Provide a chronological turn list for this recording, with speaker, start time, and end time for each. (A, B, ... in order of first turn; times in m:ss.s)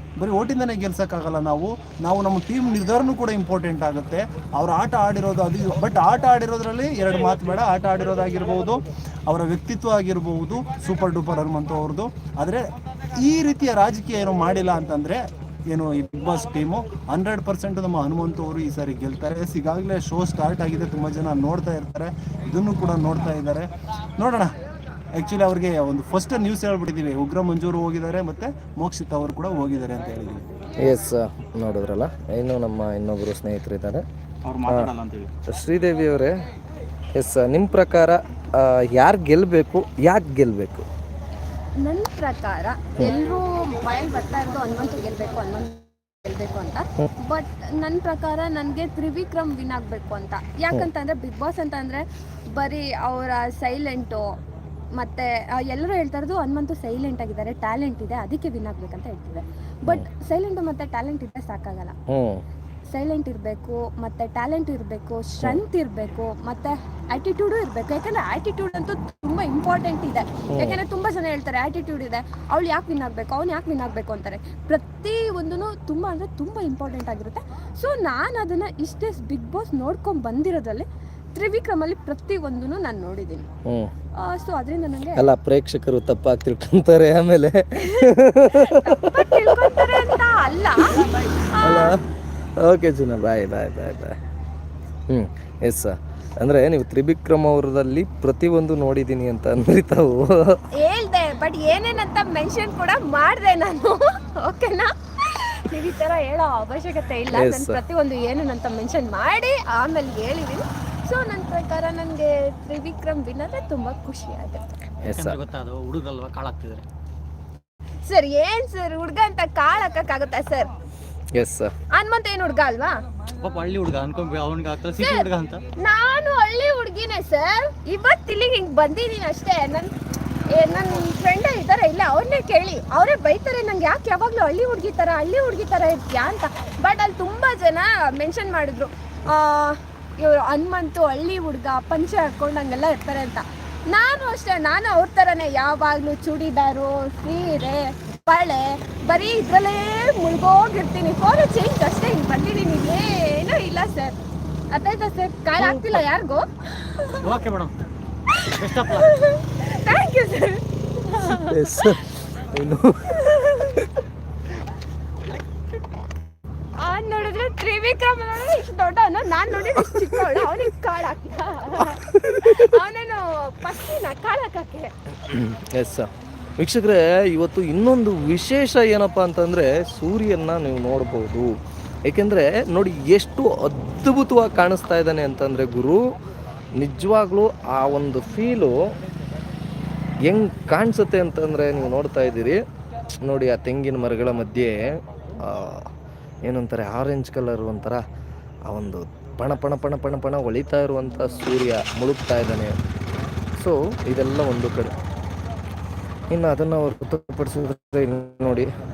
0:00.2-0:24.5 A
0:25.1-0:30.5 A
0:30.8-0:34.0 B
0:34.4-0:35.3 C
0:34.7-0:34.9 B
0:35.5-0:36.3 B
0:37.2-0:40.8 B
0:41.8-0:54.2 D
0:55.0-1:02.0 D
1:02.1-1:02.4 B
1:02.9-1:20.8 D
1:10.5-1:10.8 B
1:21.4-1:23.5 D
1:23.7-1:23.9 B
1:24.2-1:25.3 D
1:25.2-1:30.2 B
1:27.8-1:32.0 D
1:31.6-1:32.0 B
1:32.6-1:34.2 B
1:35.1-1:40.6 B
1:40.8-1:54.6 D
1:47.3-1:47.8 B
1:55.0-1:55.4 B
1:55.1-1:56.8 C
1:58.1-2:00.7 D
2:01.4-2:01.7 B
2:01.9-2:02.9 D
2:03.4-2:05.6 C
2:05.0-2:05.3 D
2:05.8-2:09.9 D
2:10.6-2:34.2 D
2:34.7-2:37.2 D
2:37.2-2:37.7 C
2:38.5-2:41.9 D
2:38.5-2:39.1 C
2:41.3-2:43.2 B
2:43.2-2:43.7 D
2:46.8-2:54.9 D
2:49.8-2:50.5 B
2:51.8-2:52.7 B
2:55.2-3:01.5 B
3:02.1-3:06.0 B
3:06.8-3:08.7 B
3:10.2-3:12.6 B
3:13.2-3:15.9 B
3:16.4-3:18.0 B
3:18.7-3:22.8 B
3:23.6-3:25.0 B
3:26.3-3:28.7 B